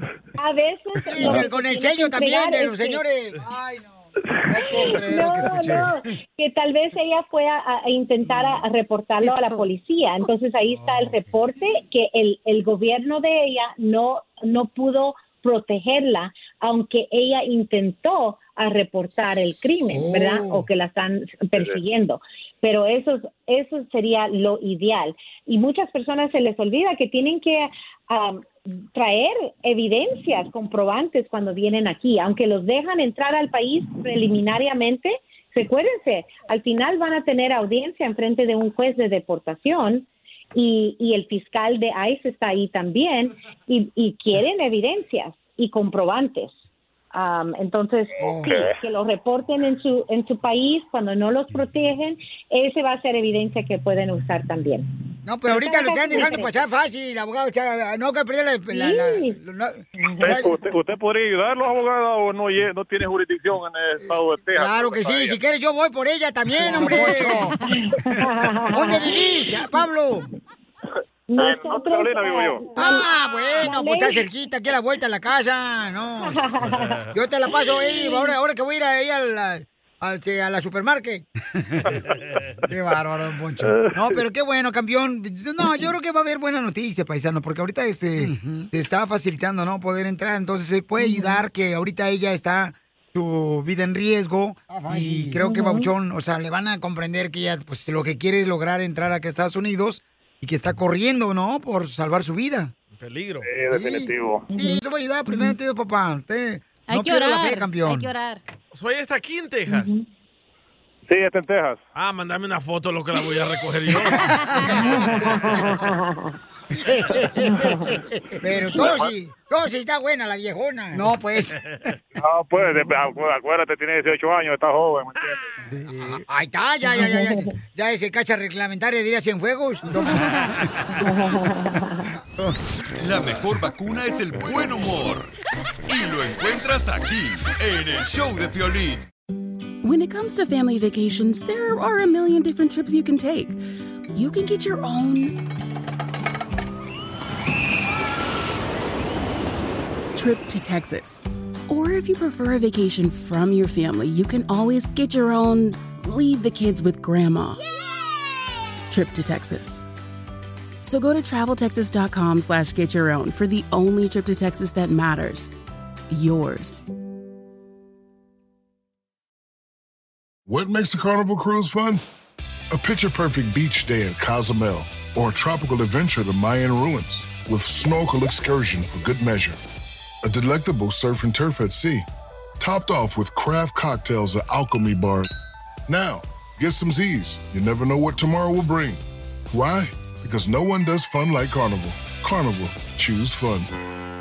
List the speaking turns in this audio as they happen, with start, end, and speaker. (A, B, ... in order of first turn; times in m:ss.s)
0:00.4-0:03.0 A
0:01.1-0:05.9 B
0:04.7-0:46.5 A
0:09.2-0:09.6 C
0:19.9-0:20.6 B
0:47.1-0:54.9 A
0:48.2-0:48.6 B
0:55.2-1:00.5 B
0:55.5-0:56.6 A
0:58.7-0:59.4 A
1:00.0-1:00.4 A
1:00.2-1:05.4 D
1:04.0-1:07.6 B
1:06.6-1:09.2 A
1:06.7-1:07.5 C
1:08.7-1:10.3 B
1:11.3-1:13.1 A
1:11.4-1:12.7 D
1:12.8-1:16.4 B
1:13.6-1:14.2 A
1:16.3-1:17.0 A
1:16.6-1:17.1 E
1:17.1-1:21.8 B
1:18.0-1:18.3 A
1:22.2-1:22.5 E
1:22.7-1:42.7 B
1:31.0-1:31.3 A
1:35.0-1:35.9 A
1:43.0-1:43.5 E
1:43.4-1:44.5 D
1:43.7-1:48.1 B
1:46.9-1:48.4 C
1:48.7-1:50.0 E
1:49.7-1:50.0 A
1:51.1-1:51.8 D
1:51.9-1:54.3 E
1:54.4-1:54.7 C
1:54.5-1:55.2 B
1:54.7-1:56.4 A
1:56.7-2:01.6 B
1:57.4-1:57.9 A
1:58.8-1:59.1 D
2:02.2-2:05.4 D
2:05.7-2:10.5 B
2:06.9-2:07.5 A
2:11.0-2:12.0 A
2:13.0-2:15.3 F
2:15.9-2:19.0 F
2:19.8-2:23.6 G
2:24.1-2:25.4 G
2:30.1-2:37.6 G
2:38.9-2:39.8 G
2:40.8-2:45.5 G
2:46.1-2:46.8 G
2:50.5-2:52.0 H
2:52.7-2:59.6 H
3:00.2-3:02.1 H
3:02.6-3:05.3 H
3:05.9-3:13.7 H